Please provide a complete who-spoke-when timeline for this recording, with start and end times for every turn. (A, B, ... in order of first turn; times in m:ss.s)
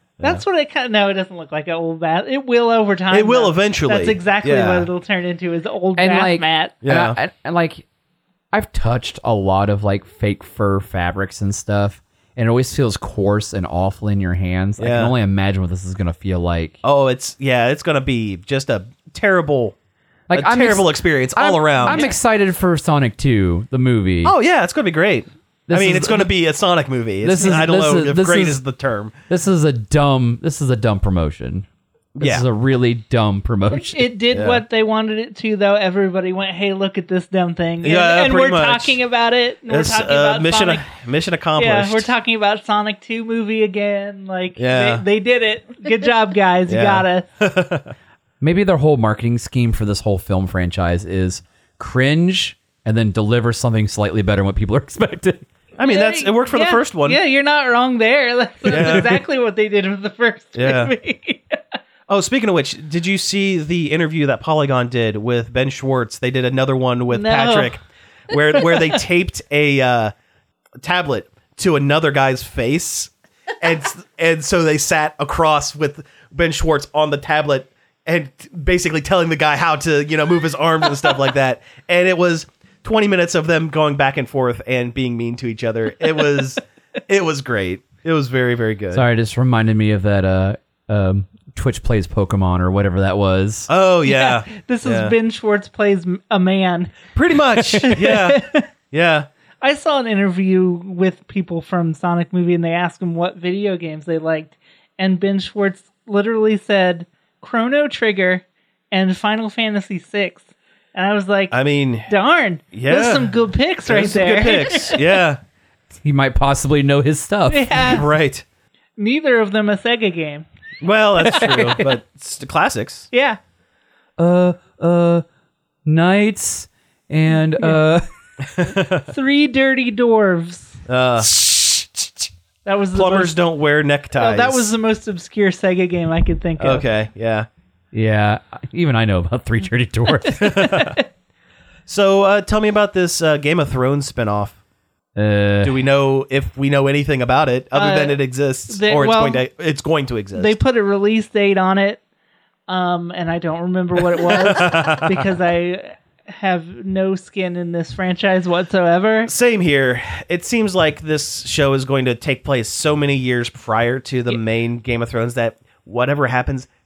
0:00.2-0:06.7 A
0:03.1-0:04.9 B
0:06.0-0:07.8 C
0:06.8-0:07.2 B
0:08.5-0:16.8 C
0:14.8-0:15.1 B
0:16.8-0:19.8 B
0:20.3-0:24.3 C
0:20.3-0:22.1 B
0:21.8-0:22.2 A
0:24.2-0:29.1 B
0:25.7-0:26.3 C
0:27.2-0:28.6 C
0:29.3-0:31.6 C
0:32.2-0:32.4 B
0:32.2-0:34.0 C
0:33.7-0:40.9 A
0:34.3-0:34.6 B
0:37.8-0:39.0 B
0:39.7-0:42.1 B
0:41.6-0:47.2 A
0:44.6-0:45.0 B
0:46.7-0:47.9 B
0:48.4-0:55.5 C
0:55.8-0:57.2 B
0:55.8-1:01.8 A
0:58.6-0:59.2 B
1:00.5-1:00.9 B
1:02.1-1:10.1 B
1:07.1-1:07.8 A
1:08.5-1:09.0 A
1:10.8-1:29.0 B
1:28.9-1:33.7 C
1:33.7-1:35.1 B
1:34.0-1:37.1 A
1:37.1-1:39.3 B
1:37.8-1:38.6 A
1:39.6-1:55.0 A
1:51.5-1:52.1 B
1:52.7-1:53.3 B
1:53.8-1:55.4 B
1:55.9-1:57.9 C
1:57.5-1:58.0 A
1:57.8-1:58.4 B
1:59.0-2:00.4 A
2:00.8-2:03.1 B
2:01.2-2:01.8 A
2:03.1-2:03.4 A
2:04.2-2:05.2 C
2:05.8-2:08.0 C
2:08.5-2:09.1 B
2:09.1-2:10.8 A
2:10.9-2:12.3 B
2:12.6-2:13.4 A
2:12.9-2:14.7 B
2:14.1-2:16.9 A
2:16.6-2:17.5 B
2:17.9-2:20.6 C
2:20.2-2:21.0 A
2:20.4-2:21.0 B
2:21.9-2:24.6 B
2:25.2-2:25.8 C
2:25.6-2:30.6 B
2:27.7-2:29.4 A
2:30.4-2:32.0 A
2:32.7-2:39.3 A
2:34.2-2:35.3 B
2:39.3-2:46.7 B